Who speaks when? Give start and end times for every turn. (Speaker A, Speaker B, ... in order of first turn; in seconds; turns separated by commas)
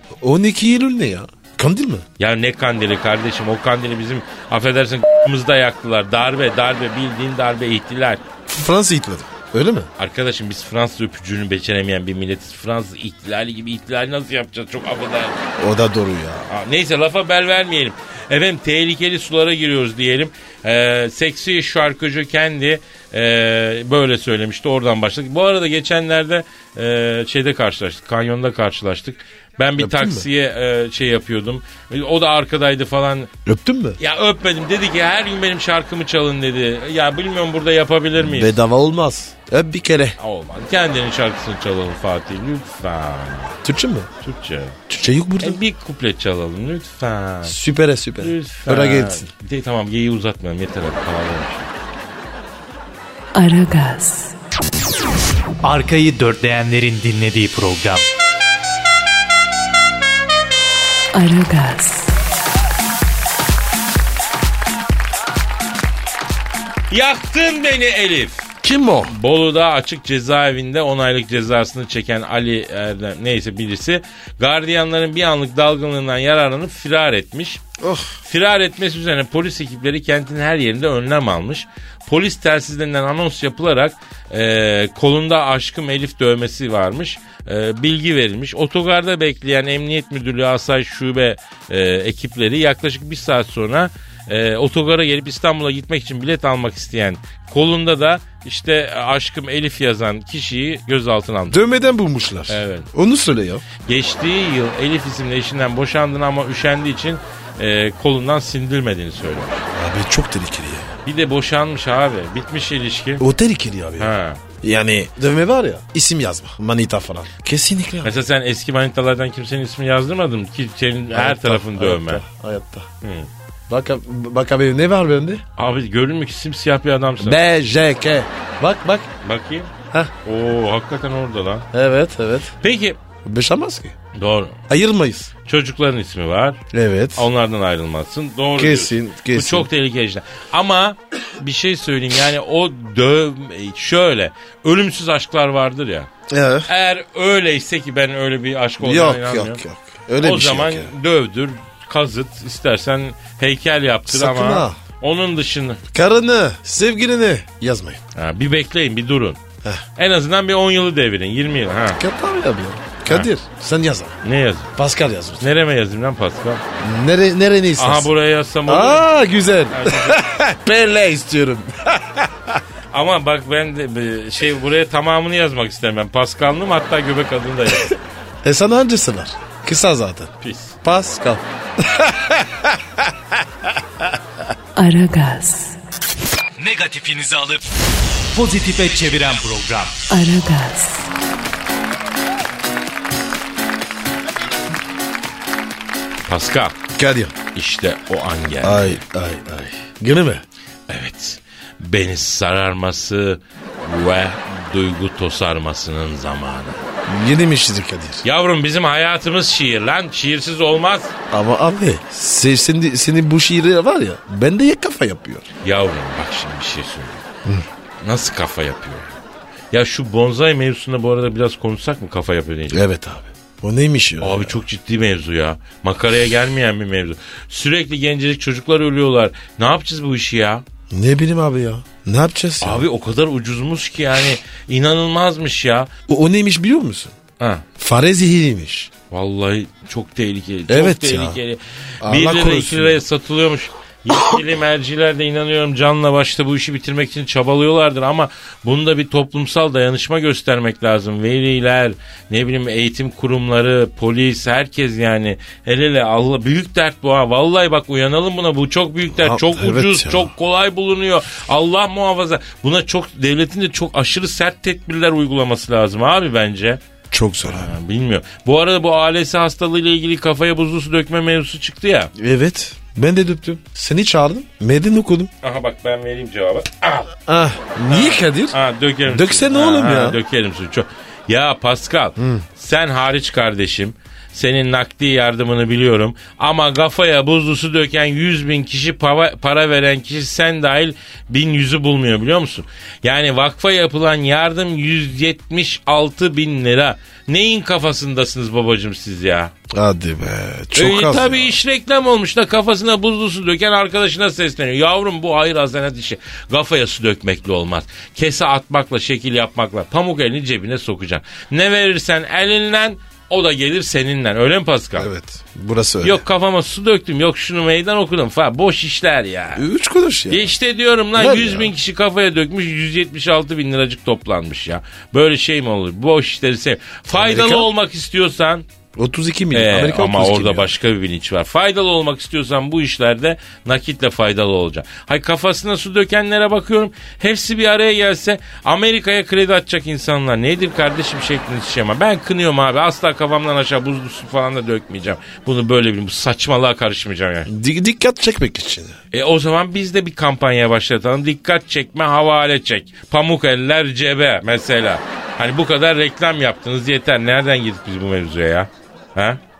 Speaker A: 0.2-2.0, Speaker B: 2.2-8.2, Speaker A: 8.5-9.9, Speaker B: 10.0-15.4, Speaker A: 15.6-16.5, Speaker B: 16.5-33.3, Speaker A: 29.8-30.3, Speaker A: 33.4-34.0, Speaker B: 34.0-38.6, Speaker A: 38.2-40.2, Speaker B: 40.2-43.6, Speaker A: 43.6-44.1, Speaker B: 44.2-44.8, Speaker A: 44.9-45.6, Speaker B: 45.4-47.5, Speaker A: 47.4-49.3, Speaker B: 48.2-51.7, Speaker C: 53.3-54.3, Speaker D: 55.6-58.0, Speaker C: 61.1-62.1, Speaker B: 66.9-68.4, Speaker A: 68.6-69.1, Speaker B: 69.1-77.6, Speaker A: 77.8-78.1, Speaker B: 78.2-101.6, Speaker A: 101.5-103.6, Speaker B: 102.5-102.9, Speaker B: 103.8-109.6, Speaker A: 109.7-110.9, Speaker B: 111.0-113.2, Speaker A: 113.2-118.1, Speaker B: 114.0-114.4, Speaker B: 118.0-122.2, Speaker A: 121.1-122.9, Speaker B: 123.0-123.3, Speaker A: 123.7-125.4, Speaker B: 125.6-127.4, Speaker A: 127.2-129.1, Speaker B: 129.2-129.7, Speaker B: 130.2-131.7, Speaker A: 131.7-132.5, Speaker B: 132.6-133.0, Speaker A: 133.2-133.9, Speaker B: 134.1-134.6, Speaker A: 134.7-135.3, Speaker B: 135.4-136.6, Speaker A: 136.7-137.3, Speaker B: 137.2-146.1, Speaker A: 138.6-139.7, Speaker A: 146.3-146.7, Speaker B: 146.7-149.6, Speaker A: 148.8-150.9, Speaker B: 150.2-155.8, Speaker A: 154.1-154.8, Speaker A: 155.9-158.0, Speaker B: 158.1-159.4, Speaker B: 159.9-162.0, Speaker A: 161.9-164.2, Speaker B: 164.2-164.7, Speaker A: 164.8-165.4, Speaker B: 165.4-166.6, Speaker A: 166.8-168.1, Speaker B: 167.8-169.1, Speaker A: 168.7-172.6, Speaker B: 169.7-170.2, Speaker B: 172.9-177.9, Speaker A: 178.4-183.1, Speaker B: 180.4-180.8, Speaker C: 184.8-185.8, Speaker D: 186.6-187.6, Speaker D: 188.3-190.0, Speaker C: 190.1-191.1, Speaker B: 196.3-196.8, Speaker A: 196.9-197.3, Speaker B: 197.5-199.0, Speaker A: 198.6-200.4, Speaker B: 200.9-206.8, Speaker A: 207.1-208.2, Speaker B: 208.2-211.1, Speaker A: 211.3-215.5, Speaker B: 215.6-217.2, Speaker B: 218.0-219.1, Speaker B: 219.7-222.8, Speaker A: 222.7-224.6, Speaker B: 224.2-230.6, Speaker A: 230.9-232.8, Speaker B: 232.6-235.9, Speaker A: 236.1-237.1, Speaker B: 237.4-237.6, Speaker A: 237.8-238.9, Speaker B: 239.1-266.8, Speaker A: 240.7-241.4, Speaker A: 242.0-243.0, Speaker A: 259.1-260.3, Speaker A: 267.1-267.7, Speaker B: 267.5-272.1, Speaker A: 272.1-275.3, Speaker B: 275.4-277.1, Speaker A: 277.3-280.2, Speaker B: 277.9-299.5, Speaker A: 282.2-282.4, Speaker A: 299.7-301.6, Speaker B: 300.7-315.1, Speaker A: 315.0-316.2, Speaker B: 316.0-319.6, Speaker A: 319.5-320.5, Speaker B: 320.3-328.6, Speaker A: 321.1-321.7, Speaker A: 327.1-327.7, Speaker A: 328.9-330.7, Speaker B: 329.5-347.5, Speaker A: 347.5-349.0, Speaker B: 349.1-359.4